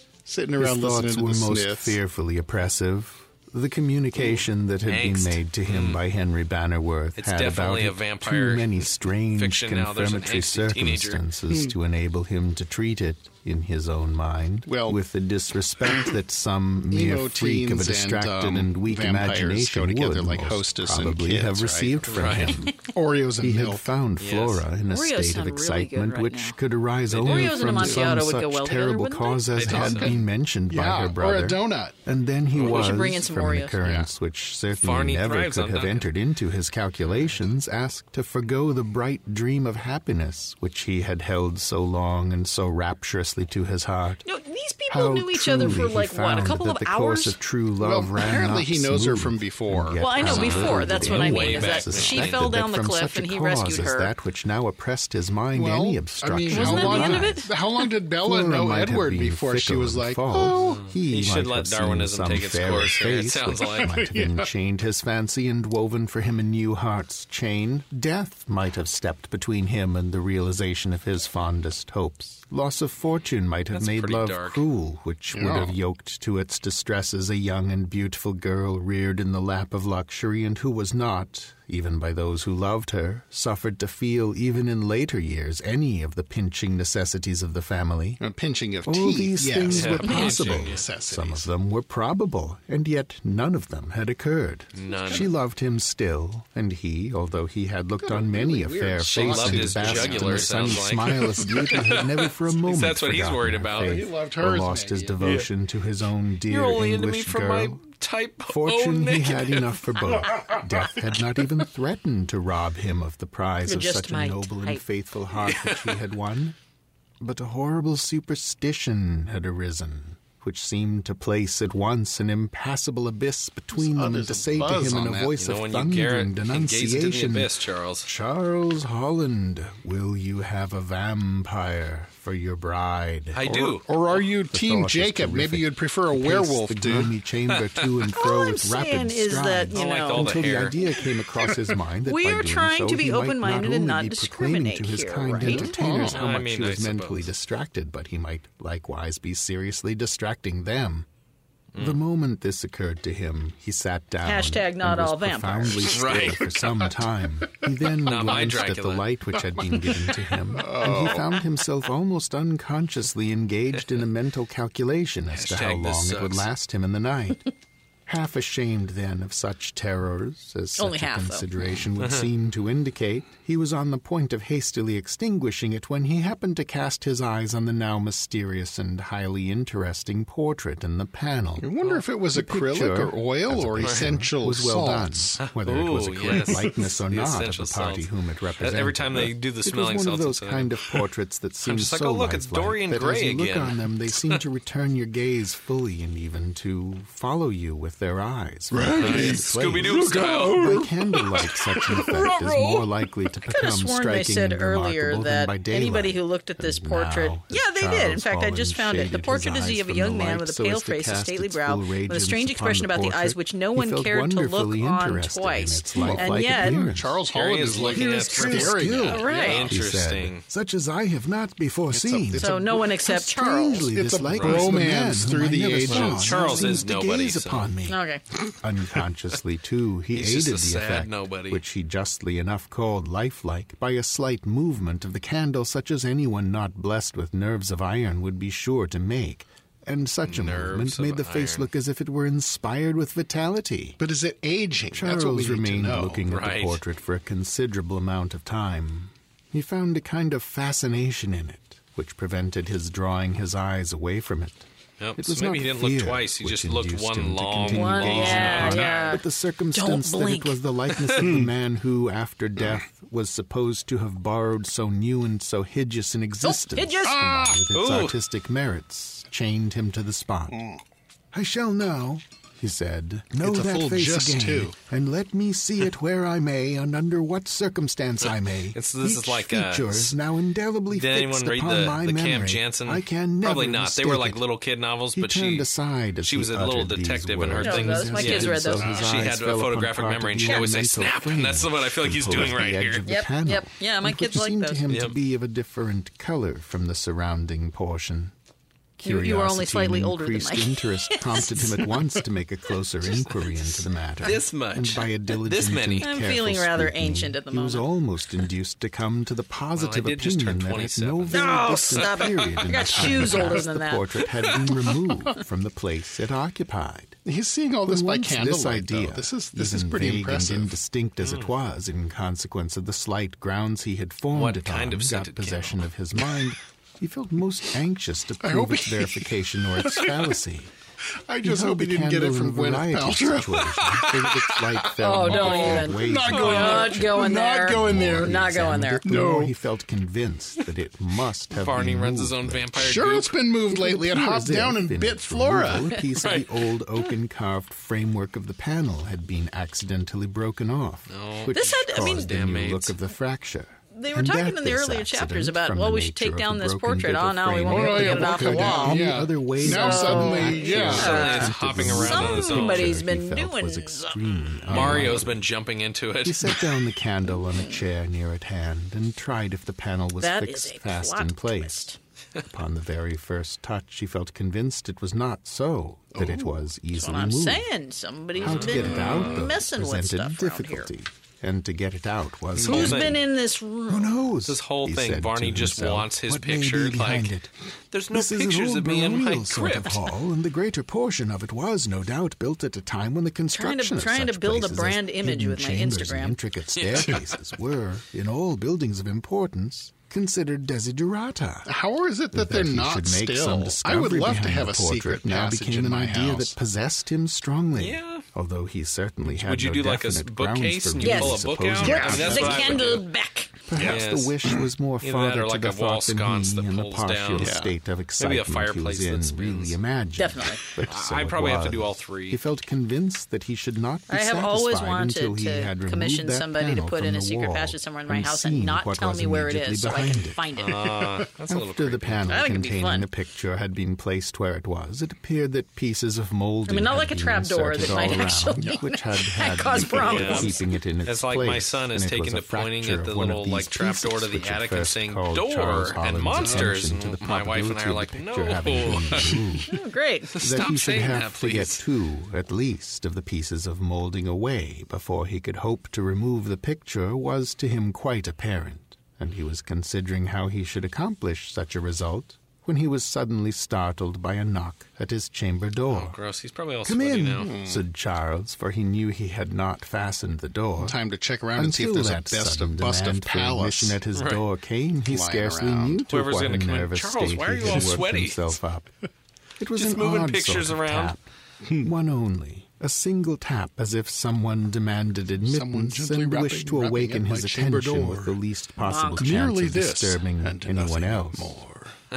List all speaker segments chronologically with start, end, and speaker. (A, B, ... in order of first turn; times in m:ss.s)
0:00.3-0:02.0 A
0:00.6-0:44.2 B
0:04.8-0:06.0 C
0:07.2-0:11.2 C
0:14.7-0:15.0 A
0:16.9-0:23.8 A
0:22.1-0:22.6 C
0:24.2-0:24.7 C
0:24.9-0:26.6 D
0:27.1-0:27.6 C
0:27.2-0:29.5 D
0:27.6-0:28.1 A
0:29.5-0:30.2 C
0:29.7-0:32.0 A
0:32.5-0:33.1 C
0:32.6-0:33.8 D
0:33.8-0:34.1 A
0:34.8-0:36.1 C
0:44.2-0:47.4 D
0:44.9-0:57.5 B
0:47.8-0:50.7 A
0:50.0-0:54.1 D
0:50.2-0:52.5 C
0:55.5-1:00.9 A
0:56.4-0:57.8 D
0:58.2-1:28.2 B
1:00.5-1:04.0 C
1:03.7-1:04.5 A
1:13.7-1:14.6 C
1:15.3-1:15.8 A
1:28.2-1:31.5 A
1:28.8-1:47.8 B
1:29.7-1:30.9 C
1:34.7-1:35.3 C
1:34.9-1:35.3 A
1:38.0-1:42.0 A
1:39.0-1:44.1 C
1:43.7-1:45.2 A
1:45.2-1:45.5 C
1:46.5-1:50.0 C
1:48.5-1:56.6 B
1:53.7-1:54.8 D
1:55.4-1:56.0 C
1:57.2-2:07.5 B
2:03.8-2:05.3 A
2:05.3-2:08.1 C
2:08.0-2:13.4 B
2:13.3-2:14.2 C
2:13.4-2:17.1 A
2:14.4-2:31.1 B
2:17.5-2:18.1 C
2:18.1-2:21.0 D
2:19.7-2:20.8 C
2:22.0-2:25.7 D
2:25.3-2:26.2 A
2:25.9-2:27.3 C
2:31.8-2:47.5 B
2:34.2-2:35.9 D
2:35.8-2:37.0 C
2:38.0-2:39.1 C
2:40.5-2:41.4 A
2:45.3-2:46.5 C
2:48.1-3:01.7 B
2:50.8-2:51.5 D
2:52.0-2:52.3 C
3:01.6-3:05.4 A
3:02.3-3:37.2 B
3:03.8-3:04.1 C
3:05.4-3:11.0 C
3:06.3-3:06.6 A
3:11.6-3:14.4 C
3:18.7-3:22.5 A
3:18.9-3:22.9 C
3:23.4-3:36.9 D
3:36.0-3:39.7 A
3:37.3-3:40.4 C
3:37.7-3:48.0 B
3:39.1-3:39.7 D
3:41.9-3:42.8 A
3:42.4-3:43.9 D
3:43.9-3:46.7 A
3:44.3-3:44.8 C
3:45.9-3:47.7 C
3:47.9-3:48.2 D
3:48.6-4:04.0 B
3:50.1-3:51.6 C
4:00.2-4:01.7 C
4:04.0-4:06.2 A
4:04.9-4:14.7 B
4:06.3-4:06.8 C
4:15.0-4:19.2 C
4:15.2-4:30.6 B
4:17.7-4:20.6 D
4:21.2-4:21.5 A
4:26.4-4:27.2 D
4:27.0-4:27.6 A
4:27.7-4:28.2 C
4:30.5-4:30.8 A
4:31.3-4:44.4 B
4:33.4-4:34.8 A
4:38.7-4:40.2 C
4:40.9-4:45.7 C
4:45.2-4:58.3 B
4:46.2-4:53.0 C
4:47.6-4:49.2 D
4:50.4-4:50.7 D
4:53.0-4:54.8 D
4:54.9-4:55.2 C
4:59.0-5:17.2 B
4:59.0-5:02.2 D
5:04.2-5:06.1 C
5:06.0-5:07.8 D
5:09.8-5:13.6 C
5:11.3-5:14.2 D
5:14.2-5:15.0 C
5:17.2-5:20.8 A
5:17.8-5:30.7 B
5:21.2-5:21.5 C
5:24.3-5:26.3 C
5:28.4-5:30.2 A
5:31.2-5:33.6 A
5:31.4-5:43.0 B
5:33.8-5:35.5 C
5:35.0-5:39.1 D
5:35.3-5:39.5 A
5:41.5-5:43.4 C
5:42.8-5:46.0 A
5:43.7-6:05.5 B
5:46.2-5:46.5 C
5:51.1-5:53.0 C
5:51.5-5:52.3 D
5:53.9-6:04.5 D
5:57.7-6:01.4 A
6:00.7-6:03.0 C
6:04.7-6:05.2 A
6:04.7-6:06.7 C
6:06.2-6:17.7 B
6:07.5-6:07.8 D
6:10.2-6:12.0 D
6:16.2-6:16.5 A
6:16.9-6:20.9 D
6:18.4-6:23.3 B
6:18.4-6:19.4 C
6:22.6-6:23.2 C
6:22.6-6:24.2 D
6:23.9-6:27.5 B
6:24.4-6:27.4 C
6:27.9-6:30.1 C
6:28.1-6:41.7 B
6:33.5-6:36.4 D
6:36.8-6:37.4 C
6:41.7-6:46.6 A
6:42.3-6:52.9 B
6:47.8-6:48.2 C
6:49.3-6:53.0 C
6:51.0-6:53.5 D
6:51.8-6:52.6 A
6:53.7-7:10.4 B
6:53.7-6:57.6 C
6:53.8-6:54.6 A
6:57.4-6:57.7 A
6:58.2-6:59.8 C
7:00.2-7:00.6 D
7:00.8-7:02.4 C
7:04.1-7:11.1 D
7:10.6-7:12.4 C
7:10.7-7:11.3 A
7:11.5-7:29.8 B
7:12.3-7:13.1 D
7:16.7-7:20.7 D
7:20.0-7:29.6 C
7:26.3-7:26.9 A
7:29.7-7:30.3 D
7:30.3-7:31.8 C
7:30.4-7:46.2 B
7:45.9-7:47.5 C
7:46.8-7:51.0 B
7:47.4-7:47.8 A
7:50.8-7:54.0 A
7:51.6-7:58.9 B
7:54.1-7:54.4 C
7:55.0-7:56.0 A
7:56.1-7:58.6 C
7:59.6-8:01.2 B
7:59.8-8:01.2 C
8:01.6-8:01.9 A
8:01.8-8:11.6 B
8:05.4-8:08.4 A
8:08.8-8:09.4 D
8:09.2-8:11.9 A